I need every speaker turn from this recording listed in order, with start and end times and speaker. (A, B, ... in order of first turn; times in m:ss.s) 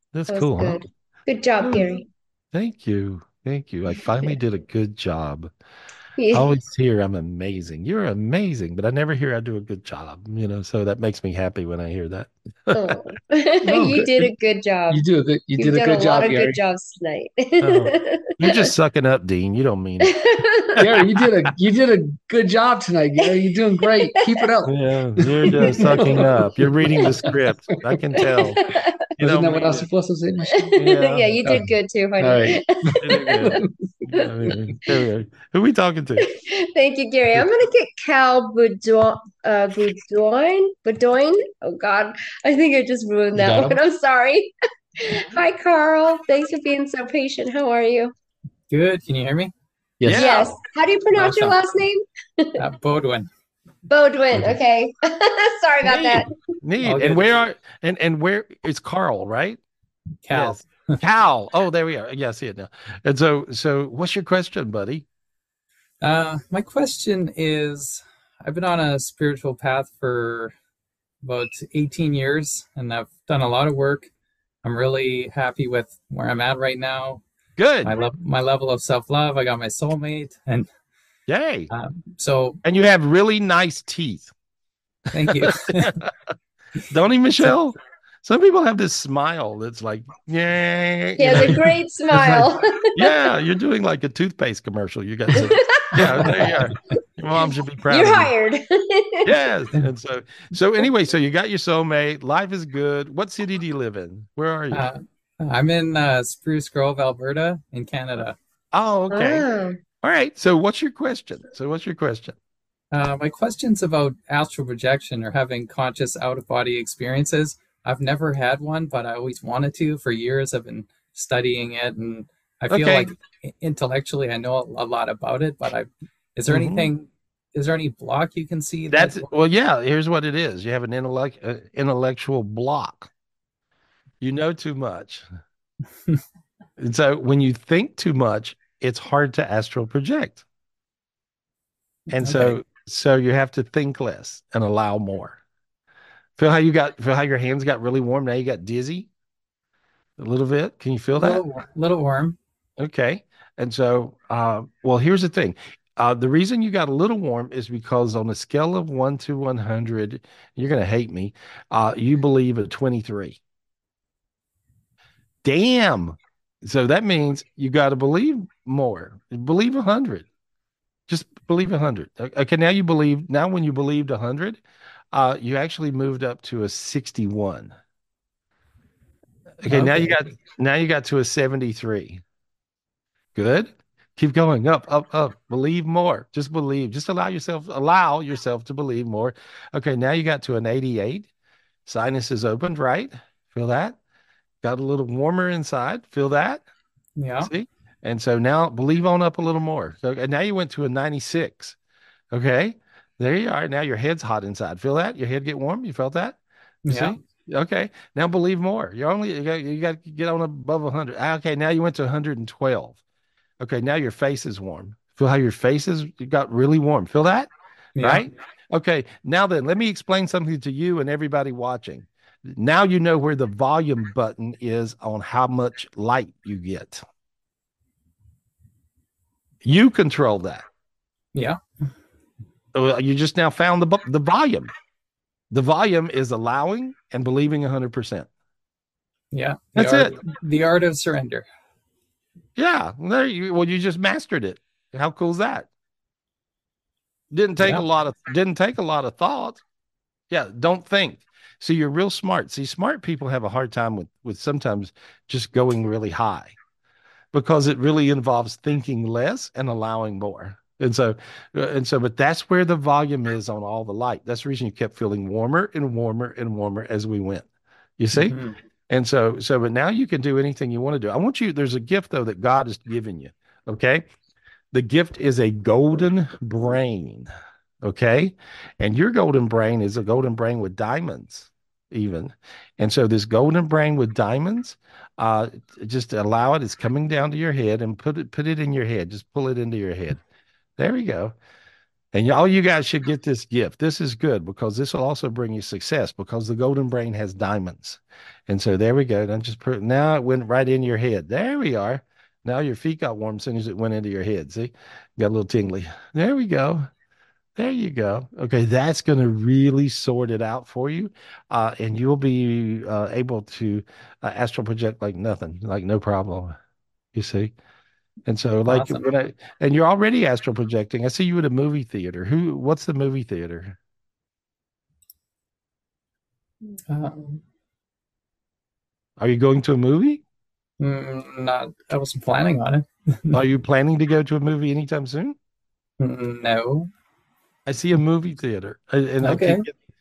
0:00.1-0:00.8 A
0:00.3-0:02.0 B
0:01.6-0:02.0 A
0:02.5-0:05.5 A
0:06.2-0:06.5 B
0:06.3-0:13.0 A
0:12.7-0:15.0 B
0:13.6-0:14.1 C
0:13.7-0:14.1 A
0:14.9-0:16.6 C
0:15.6-0:18.7 B
0:17.6-0:20.1 A
0:20.0-0:20.8 B
0:20.8-0:28.0 C
0:24.2-0:24.5 B
0:24.7-0:28.6 A
0:28.5-0:28.9 B
0:29.2-0:29.9 A
0:29.2-0:30.7 C
0:30.6-0:33.6 B
0:30.8-0:31.4 A
0:31.4-0:33.7 C
0:33.0-0:36.3 A
0:36.2-0:44.5 B
0:43.3-0:43.8 C
0:45.0-0:48.1 B
0:48.7-0:49.5 D
0:50.0-0:50.5 C
0:50.0-0:50.6 A
0:50.1-0:52.5 B
0:51.1-0:51.6 D
0:52.6-0:53.3 D
0:53.9-0:56.3 B
0:55.9-0:59.6 A
0:56.8-0:57.3 D
1:00.2-1:00.7 D
1:00.3-1:05.1 A
1:06.0-1:10.5 D
1:11.2-1:14.1 D
1:14.6-1:17.2 D
1:17.6-1:17.9 A
1:17.8-1:20.7 D
1:21.3-1:21.7 A
1:21.7-1:22.6 D
1:22.6-1:24.3 A
1:25.1-1:25.9 D
1:25.2-1:26.1 A
1:26.9-1:38.3 A
1:31.2-1:33.3 B
1:35.3-1:36.4 B
1:37.9-1:39.3 B
1:39.2-1:44.9 A
1:44.7-1:48.4 D
1:48.7-1:49.5 A
1:49.1-1:49.8 B
1:50.0-1:52.4 A
1:52.9-2:09.3 D
2:02.7-2:03.1 A
2:06.5-2:06.9 A
2:08.9-2:13.1 A
2:14.2-2:15.2 A
2:16.8-2:20.4 A
2:22.1-2:25.4 A
2:22.1-2:22.6 D
2:26.4-2:29.1 A
2:30.2-2:31.4 A
2:31.2-2:32.4 D
2:32.8-2:43.4 A
2:45.4-2:50.3 A
2:51.1-2:54.6 A
2:55.1-2:57.7 A
2:59.6-3:02.2 A
2:59.7-3:00.2 D
3:03.4-3:11.3 A
3:11.9-3:14.0 A
3:14.6-3:16.6 A
3:17.2-3:17.5 D
3:17.4-3:21.8 A
3:22.3-3:33.0 A
3:26.9-3:27.2 D
3:33.6-3:47.0 A
3:38.0-3:38.3 D
3:49.6-3:50.6 A
3:51.3-3:51.6 D
3:52.7-3:54.7 A
3:55.5-3:58.3 A
3:59.3-4:01.4 D
3:59.8-4:00.2 A
4:02.6-4:05.7 A
4:07.3-4:09.6 A
4:10.3-4:16.6 A
4:17.3-4:27.5 A
4:28.0-4:28.4 A
4:28.1-4:28.6 D
4:28.9-4:34.1 A
4:34.7-4:37.3 A
4:37.8-4:50.2 A
4:50.8-4:51.4 A
4:52.1-5:06.9 A
5:07.6-5:16.6 A
5:17.1-5:17.5 A
5:18.3-5:23.8 A
5:18.7-5:19.0 D
5:26.9-5:27.4 D
5:29.2-5:30.2 A
5:30.8-5:33.4 D
5:33.3-5:35.4 A
5:36.0-5:36.9 D
5:37.7-5:39.7 A
5:39.2-5:39.7 D